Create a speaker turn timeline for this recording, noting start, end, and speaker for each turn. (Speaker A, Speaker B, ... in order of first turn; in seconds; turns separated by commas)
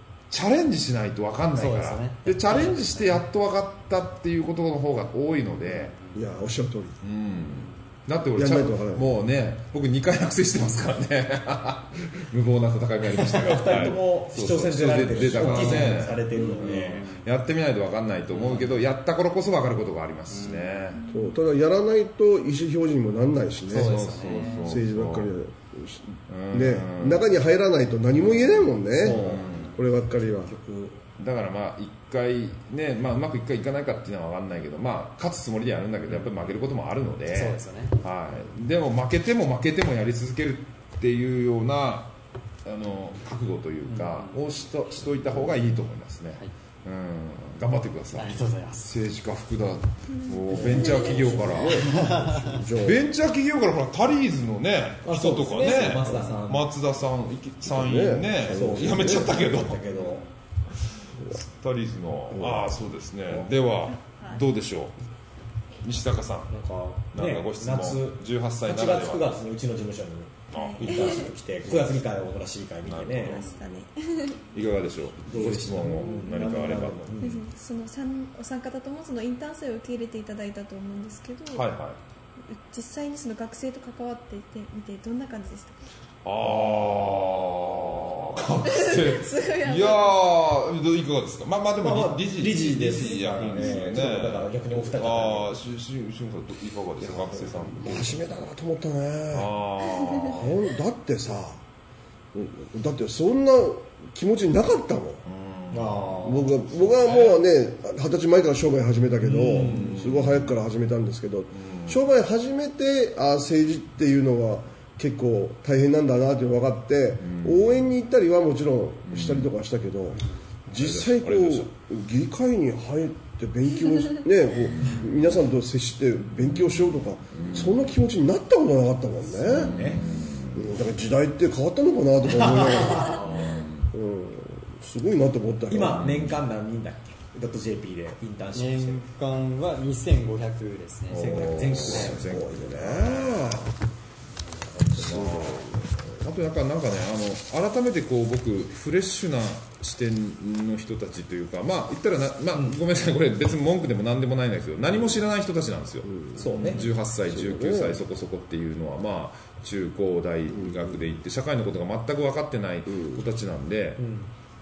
Speaker A: 0.3-5.9, Speaker B: 1.5-3.2, Speaker B: 5.7-6.3, Speaker C: 6.1-7.0, Speaker A: 7.0-21.0, Speaker C: 8.3-9.2, Speaker D: 13.3-17.1, Speaker B: 15.4-17.2, Speaker B: 18.3-18.8, Speaker B: 20.3-20.9, Speaker E: 21.0-21.3, Speaker C: 21.1-24.0, Speaker B: 23.7-24.6, Speaker A: 23.7-25.3, Speaker C: 24.6-30.5, Speaker A: 26.3-27.3, Speaker A: 28.1-29.7, Speaker D: 29.0-31.0, Speaker B: 29.3-29.7, Speaker A: 31.2-42.1, Speaker B: 37.3-38.0, Speaker A: 42.6-52.1, Speaker B: 43.9-44.4, Speaker B: 48.1-48.9, Speaker C: 50.5-53.0, Speaker B: 51.8-52.6, Speaker A: 52.7-60.2, Speaker D: 55.0-56.6, Speaker C: 57.7-59.4, Speaker D: 58.5-60.2, Speaker A: 61.6-64.9, Speaker C: 62.3-62.7, Speaker E: 64.1-64.4, Speaker A: 65.8-66.5, Speaker D: 66.5-73.5, Speaker A: 67.1-69.3, Speaker A: 70.5-72.0, Speaker E: 70.5-71.3, Speaker A: 72.8-73.4, Speaker E: 73.2-74.4, Speaker A: 74.5-77.4, Speaker D: 75.2-77.4, Speaker E: 77.2-81.7, Speaker A: 81.5-82.0, Speaker E: 82.5-85.8, Speaker A: 86.2-98.2, Speaker E: 88.6-90.2, Speaker D: 91.8-95.5, Speaker E: 93.0-94.0, Speaker D: 97.0-97.7, Speaker C: 97.8-99.5, Speaker A: 99.3-100.5, Speaker E: 100.0-100.3, Speaker C: 100.3-101.6, Speaker C: 102.3-105.2, Speaker A: 105.2-107.4, Speaker D: 105.7-106.5, Speaker C: 106.2-129.8, Speaker D: 109.2-109.9, Speaker A: 109.5-110.5, Speaker A: 111.5-112.0, Speaker A: 117.2-117.9, Speaker A: 119.1-119.5, Speaker A: 120.7-121.7, Speaker A: 124.7-125.4, Speaker A: 126.4-127.9, Speaker D: 129.3-130.0, Speaker A: 129.4-130.8, Speaker C: 130.5-133.2, Speaker D: 132.3-133.3, Speaker A: 133.0-133.9, Speaker C: 133.9-136.2, Speaker D: 135.7-139.0, Speaker A: 135.9-136.4, Speaker B: 138.5-142.2, Speaker D: 141.1-142.5, Speaker A: 141.1-143.7, Speaker C: 141.8-143.7, Speaker C: 144.8-145.9, Speaker A: 144.9-164.0, Speaker C: 156.0-158.0, Speaker D: 156.4-156.8, Speaker C: 160.5-161.2, Speaker C: 162.9-163.2, Speaker D: 164.0-164.3